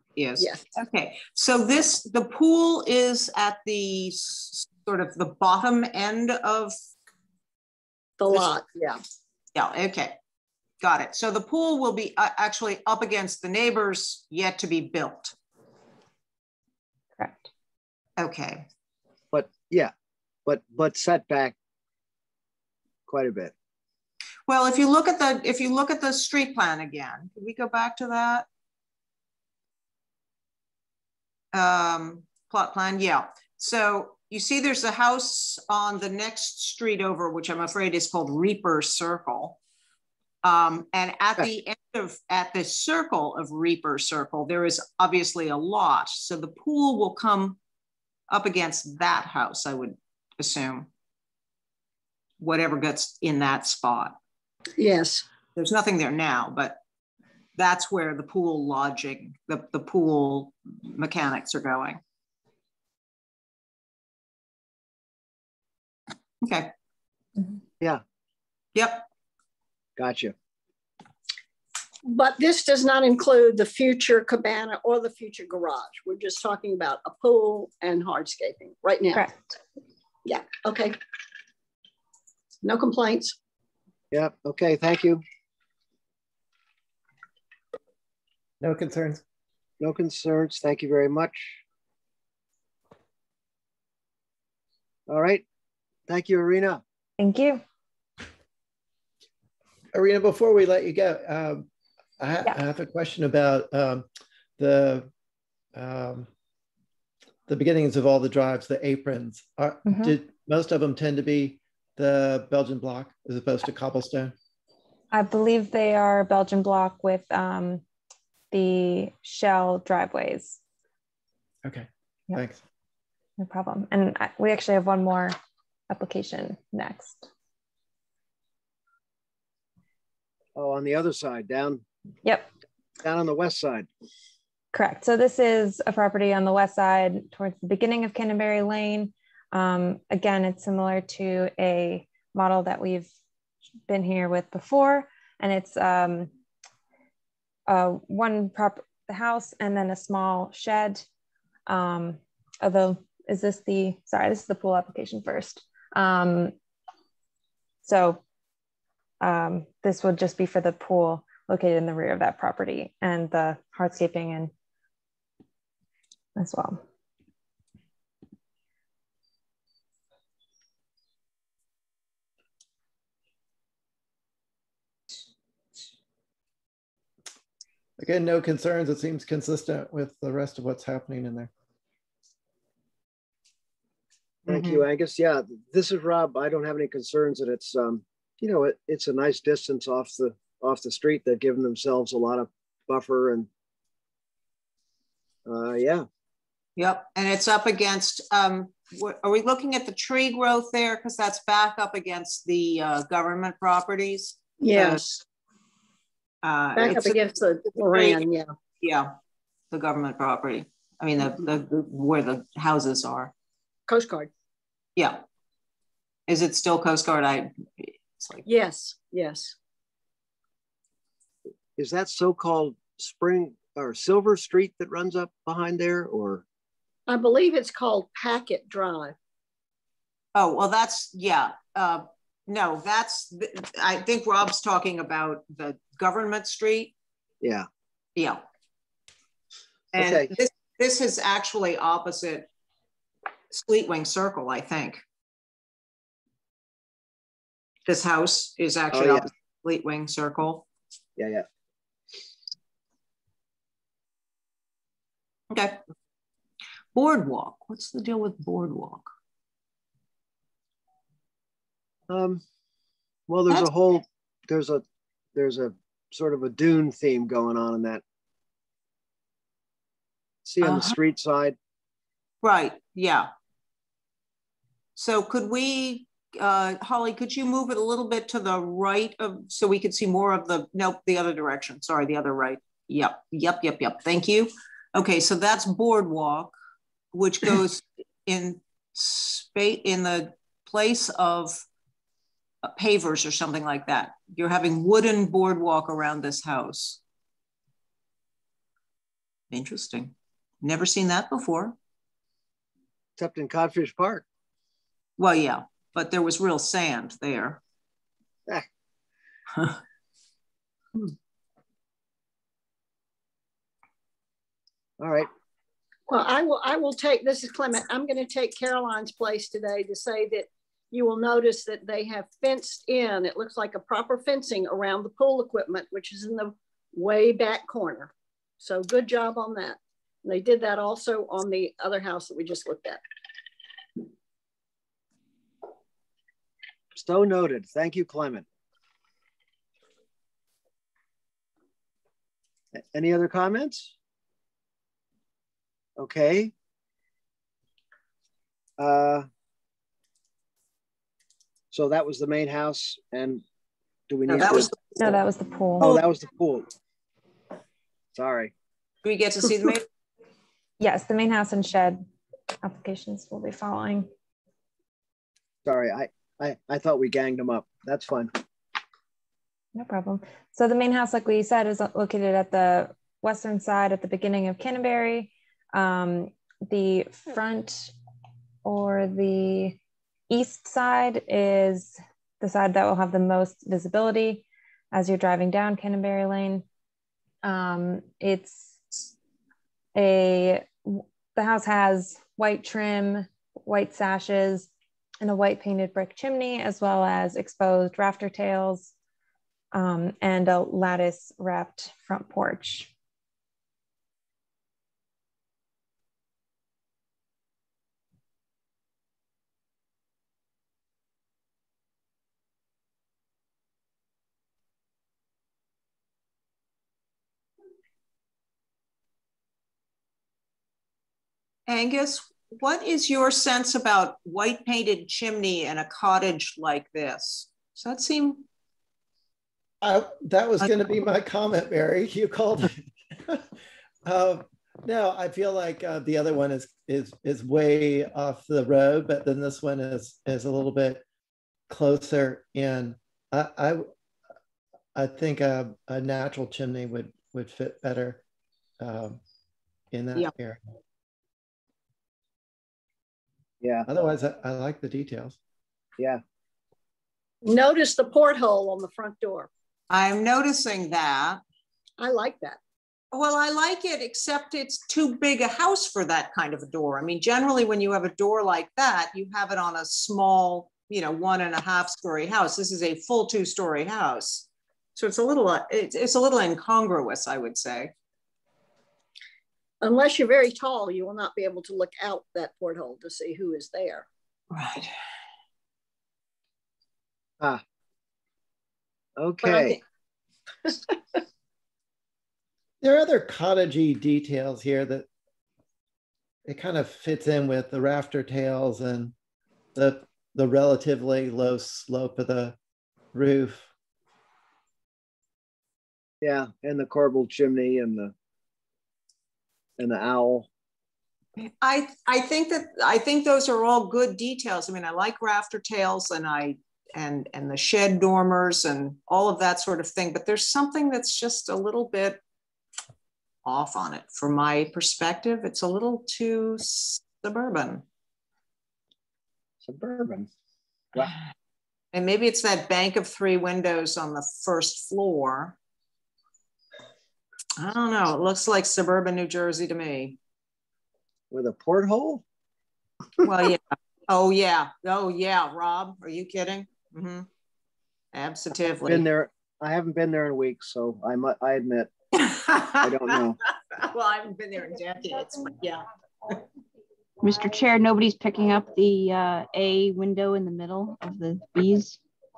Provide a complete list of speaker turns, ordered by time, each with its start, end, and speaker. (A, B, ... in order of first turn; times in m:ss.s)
0:00.2-0:06.8 A
0:08.2-0:09.0 B
0:09.6-0:10.2 A
0:10.8-0:15.4 A
0:17.2-0:17.5 C
0:18.2-0:18.7 A
0:19.3-0:19.9 D
0:20.5-0:21.5 D
0:23.1-0:23.5 D
0:24.5-0:28.5 A
0:31.5-0:39.6 A
0:40.4-0:47.6 A
0:48.3-0:50.9 A
0:52.4-0:54.2 A
0:54.8-0:55.2 B
0:55.6-0:56.8 A
0:57.6-1:02.0 A
1:06.4-1:06.7 A
1:08.8-1:09.1 A
1:10.0-1:10.3 D
1:12.1-1:19.3 B
1:20.2-1:21.0 B
1:22.6-1:23.4 B
1:24.1-1:25.2 D
1:28.6-1:29.2 E
1:29.8-1:31.6 D
1:35.1-1:35.4 D
1:36.1-1:36.8 D
1:37.2-1:37.6 C
1:39.9-1:41.7 E
1:42.2-1:44.1 E
1:44.6-1:45.1 E
1:45.8-1:46.3 E
1:47.5-1:54.3 E
1:49.9-1:50.1 C
1:55.1-1:57.8 C
1:58.5-2:00.6 C
2:01.6-2:02.6 E
2:03.4-2:05.4 C
2:05.9-2:07.3 C
2:10.6-2:11.8 D
2:13.0-2:13.9 D
2:14.7-2:23.1 C
2:23.9-2:26.3 C
2:27.7-2:31.0 C
2:31.7-2:36.5 C
2:37.8-2:38.2 C
2:39.2-2:44.5 C
2:46.4-2:46.8 C
2:58.0-3:01.5 E
3:04.5-3:04.8 A
3:04.5-3:13.5 D
3:15.5-3:16.1 D
3:16.8-3:25.2 A
3:24.6-3:25.0 B
3:26.4-3:28.2 A
3:26.8-3:28.5 B
3:28.8-3:29.1 A
3:29.7-3:33.3 A
3:33.9-3:34.3 B
3:35.0-3:35.2 A
3:36.3-3:38.4 A
3:38.5-3:39.6 B
3:41.8-3:46.4 D
3:47.1-3:49.2 B
3:50.4-3:56.9 A
3:57.4-3:57.7 D
3:58.2-3:58.4 A
3:59.9-4:02.5 A
4:00.0-4:00.3 D
4:03.5-4:05.0 A
4:07.9-4:10.7 A
4:08.9-4:09.2 D
4:11.2-4:11.4 D
4:15.5-4:15.8 A
4:17.0-4:19.1 A
4:22.1-4:22.4 D
4:23.3-4:24.8 D
4:25.4-4:28.0 D
4:30.4-4:31.6 D
4:30.6-4:31.0 A
4:32.4-4:33.3 A
4:35.0-4:46.6 A
4:47.1-4:51.6 A
4:52.6-4:57.0 A
4:59.5-5:01.8 A
5:03.2-5:04.2 D
5:05.2-5:07.6 A
5:15.0-5:15.3 D
5:16.1-5:33.0 B
5:37.0-5:38.4 D
5:42.8-5:43.9 D
5:46.0-5:46.5 D
5:48.8-5:49.3 D
5:51.7-5:53.4 D
5:54.1-5:54.7 D
5:54.3-5:54.8 A
5:55.0-5:55.9 C
5:55.8-5:56.7 D
5:58.1-5:58.5 D
5:59.0-5:59.9 A
6:00.8-6:02.0 C
6:02.6-6:04.1 C
6:05.6-6:08.3 D
6:09.8-6:17.9 C
6:18.6-6:19.8 C
6:20.3-6:26.6 C
6:27.4-6:28.8 C
6:30.0-6:34.7 C
6:35.2-6:38.9 C
6:39.7-6:42.9 C
7:01.7-7:08.5 A
7:09.8-7:13.5 E
7:14.0-7:21.0 E
7:21.7-7:23.9 E
7:25.0-7:28.2 E
7:28.8-7:29.2 E
7:29.9-7:30.6 E
7:33.6-7:33.9 D
7:33.9-7:35.4 E
7:37.4-7:39.5 B
7:39.9-7:41.4 A
7:42.0-7:42.6 B
7:43.1-7:57.9 A
7:59.8-8:04.1 B
8:04.5-8:04.9 A
8:09.2-8:09.8 D
8:09.4-8:09.8 B
8:10.6-8:11.0 B
8:12.8-8:15.1 E
8:16.5-8:19.1 E
8:19.8-8:22.6 E
8:23.1-8:23.7 E
8:26.2-8:28.1 D
8:29.8-8:30.5 D
8:31.4-8:42.2 A
8:43.4-8:47.8 A
8:49.6-8:50.3 D
8:51.9-8:55.6 A
8:57.6-9:00.2 A
9:01.3-9:02.2 D
9:03.2-9:07.3 A
9:08.1-9:09.1 A
9:08.8-9:11.9 D
9:12.2-9:13.2 A
9:12.8-9:13.4 D
9:13.7-9:16.4 A
9:17.2-9:22.0 F